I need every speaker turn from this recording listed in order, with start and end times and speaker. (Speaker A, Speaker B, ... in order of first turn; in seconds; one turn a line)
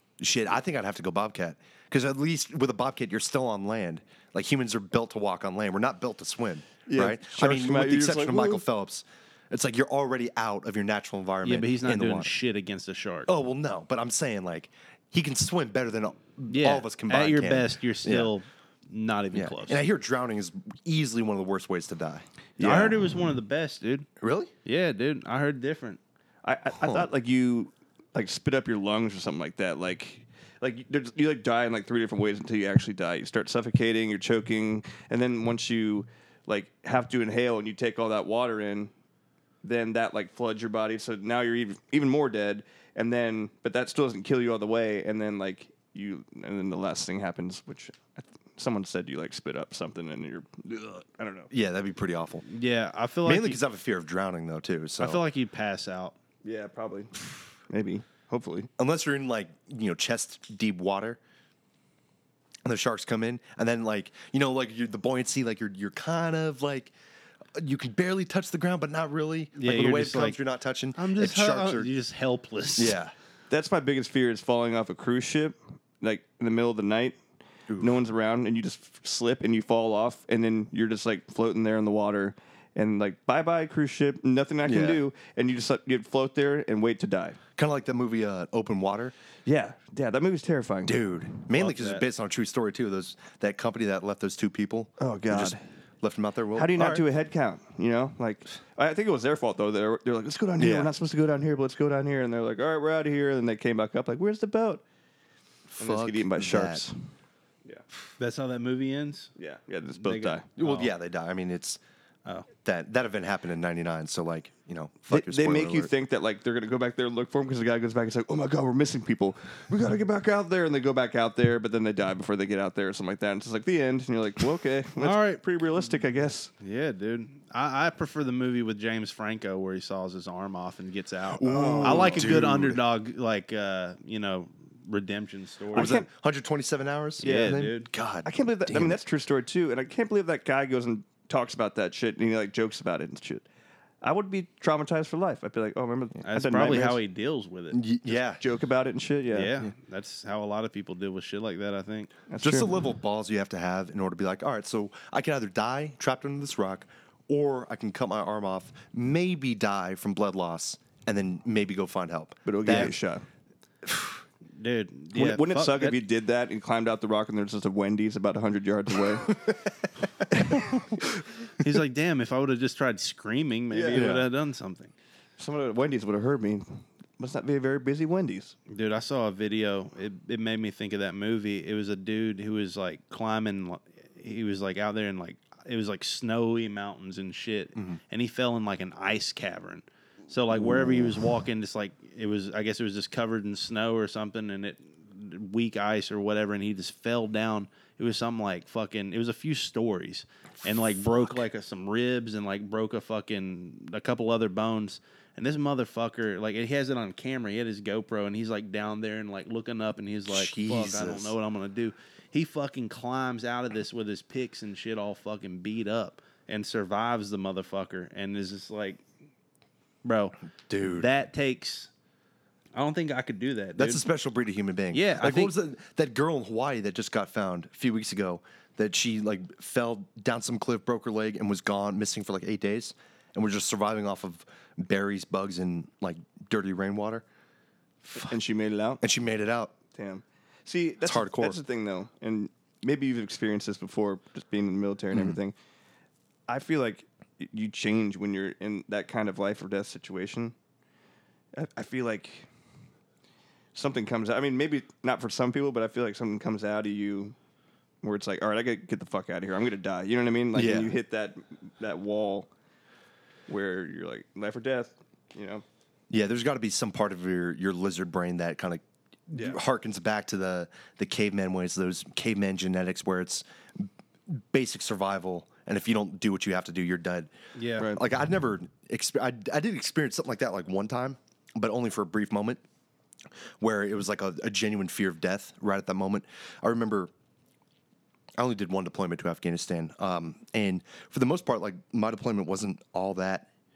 Speaker A: 0.2-12.3
Speaker B: 6.9-8.6
Speaker C: 11.4-13.3
Speaker A: 13.3-18.3
Speaker C: 16.5-19.8
Speaker A: 19.3-22.2
Speaker B: 22.6-23.0
Speaker C: 22.6-24.1
Speaker A: 24.2-24.5
Speaker C: 24.6-26.0
Speaker B: 26.4-38.9
Speaker A: 26.8-27.1
Speaker B: 39.6-51.5
Speaker A: 51.5-52.5
Speaker C: 52.5-53.6
Speaker A: 53.2-55.2
Speaker C: 55.0-56.2
Speaker B: 56.4-58.7
Speaker A: 58.8-61.2
Speaker A: 62.6-66.9
Speaker A: 67.5-71.9
Speaker C: 69.6-70.4
Speaker C: 71.0-73.0
Speaker A: 72.8-73.1
Speaker B: 73.5-77.2
Speaker A: 77.7-78.0
Speaker B: 77.8-87.4
Speaker A: 84.7-85.0
Speaker A: 87.6-89.1
Speaker B: 89.5-91.0
Speaker A: 90.9-97.0
Speaker C: 91.5-92.0
Speaker B: 95.0-95.6
Speaker B: 96.5-104.8
Speaker A: 100.6-100.9
Speaker A: 105.7-106.8
Speaker B: 105.8-107.0
Speaker C: 108.2-109.3
Speaker B: 109.4-110.5
Speaker C: 110.0-110.9
Speaker A: 110.6-111.8
Speaker A: 112.7-115.9
Speaker B: 115.1-126.5
Speaker C: 125.0-125.4
Speaker C: 126.6-135.9
Speaker A: 131.3-132.8
Speaker B: 131.4-132.4
Speaker B: 135.7-136.1
Speaker A: 135.7-139.0
Speaker C: 137.2-137.9
Speaker B: 137.2-137.6
Speaker B: 138.2-143.4
Speaker B: 144.0-147.0
Speaker C: 146.3-147.8
Speaker A: 147.7-148.4
Speaker B: 148.4-149.6
Speaker C: 149.3-152.1
Speaker B: 152.3-152.8
Speaker A: 152.4-162.9
Speaker B: 162.5-163.2
Speaker A: 163.8-164.2
Speaker C: 164.6-166.0
Speaker B: 165.2-169.5
Speaker B: 170.4-170.8
Speaker C: 171.6-174.9
Speaker B: 173.7-174.2
Speaker A: 173.9-174.2
Speaker B: 175.4-178.6
Speaker C: 178.7-219.0
Speaker A: 190.6-191.1
Speaker A: 210.3-211.3
Speaker C: 220.0-220.3
Speaker A: 220.7-221.1
Speaker C: 220.9-221.9
Speaker C: 222.7-224.0
Speaker A: 223.8-237.2
Speaker C: 224.9-225.5
Speaker A: 238.0-238.3
Speaker B: 238.2-239.0
Speaker A: 239.0-239.8
Speaker B: 239.9-245.5
Speaker A: 241.0-241.6
Speaker A: 245.1-245.4
Speaker B: 246.5-250.6
Speaker B: 251.5-252.5
Speaker B: 253.7-257.4
Speaker B: 258.0-262.5
Speaker A: 260.5-260.9
Speaker B: 263.5-265.6
Speaker A: 266.1-282.6
Speaker C: 277.6-277.9
Speaker A: 283.6-287.1
Speaker A: 288.4-293.5